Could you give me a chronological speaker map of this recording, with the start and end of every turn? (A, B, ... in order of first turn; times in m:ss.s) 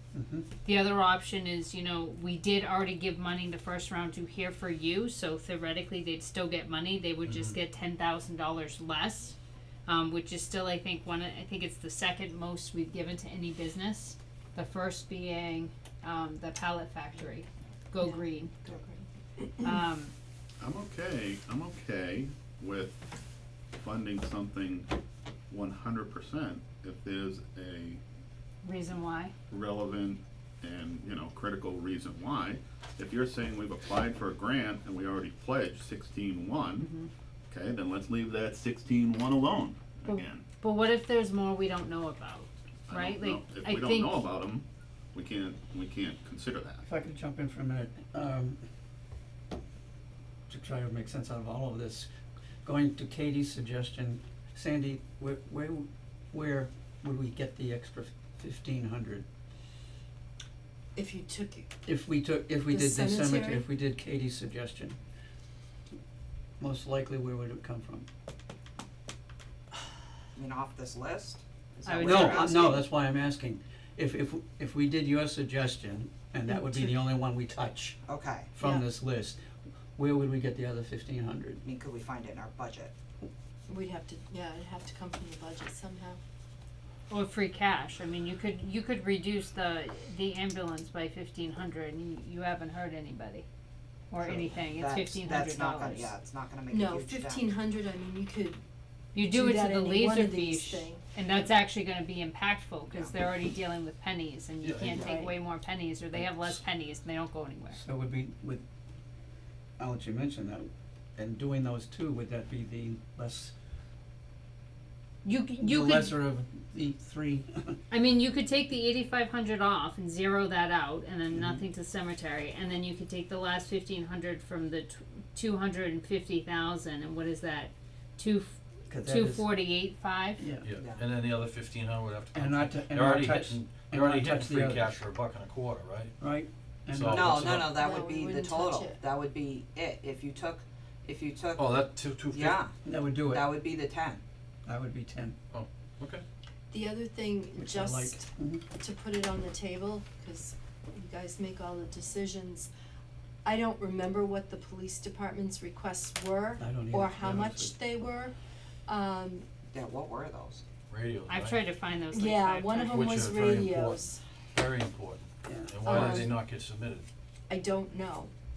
0:00.1-0:00.5 A
0:00.6-0:18.5 B
0:07.3-0:07.6 C
0:18.0-0:19.8 D
0:19.6-0:20.1 B
0:20.6-0:23.1 E
0:23.7-0:24.9 E
0:25.5-0:28.0 E
0:28.6-0:29.3 B
0:29.5-0:36.9 E
0:36.8-0:37.1 B
0:37.5-0:40.4 E
0:40.1-0:44.2 B
0:42.9-0:46.8 E
0:46.8-0:48.6 A
0:50.5-0:52.1 A
0:52.6-0:59.2 A
1:00.9-1:01.7 D
1:01.8-1:05.0 A
1:02.7-1:03.6 D
1:06.6-1:08.1 A
1:10.3-1:12.8 F
1:11.8-1:12.7 B
1:12.0-1:18.0 A
1:16.5-1:17.0 D
1:18.0-1:18.5 F
1:18.5-1:19.4 A
1:18.6-1:18.8 D
1:19.9-1:21.6 A
1:21.6-1:22.9 F
1:23.7-1:26.2 D
1:27.1-1:33.5 B
1:34.1-1:36.2 B
1:34.2-1:37.5 F
1:36.7-1:38.6 D
1:39.1-1:47.8 B
1:39.1-1:41.0 D
1:42.9-1:43.2 F
1:44.6-1:45.1 C
1:44.9-1:45.3 F
1:45.0-1:45.3 D
1:47.7-1:48.6 A
1:49.8-1:53.5 A
1:55.2-1:56.2 B
1:55.6-1:57.8 A
1:57.9-2:10.4 B
2:01.3-2:01.6 A
2:08.9-2:09.5 A
2:10.4-2:10.7 A
2:10.6-2:16.2 C
2:10.7-2:11.1 F
2:12.3-2:15.0 A
2:16.2-2:17.7 A
2:16.9-2:17.7 C
2:17.0-2:24.2 F
2:17.7-2:19.0 D
2:21.6-2:22.6 C
2:22.8-2:23.4 A
2:24.6-2:25.4 A
2:25.5-2:26.2 C
2:26.7-2:32.7 D
2:27.6-2:28.6 A
2:33.4-2:38.3 D
2:36.6-2:37.9 A
2:38.8-2:39.5 D
2:39.7-2:40.6 F
2:40.9-2:41.6 C
2:41.3-2:43.1 B
2:42.1-2:44.2 D
2:42.9-2:47.0 C
2:45.5-2:46.2 A
2:45.8-2:46.4 D
2:47.5-2:48.3 D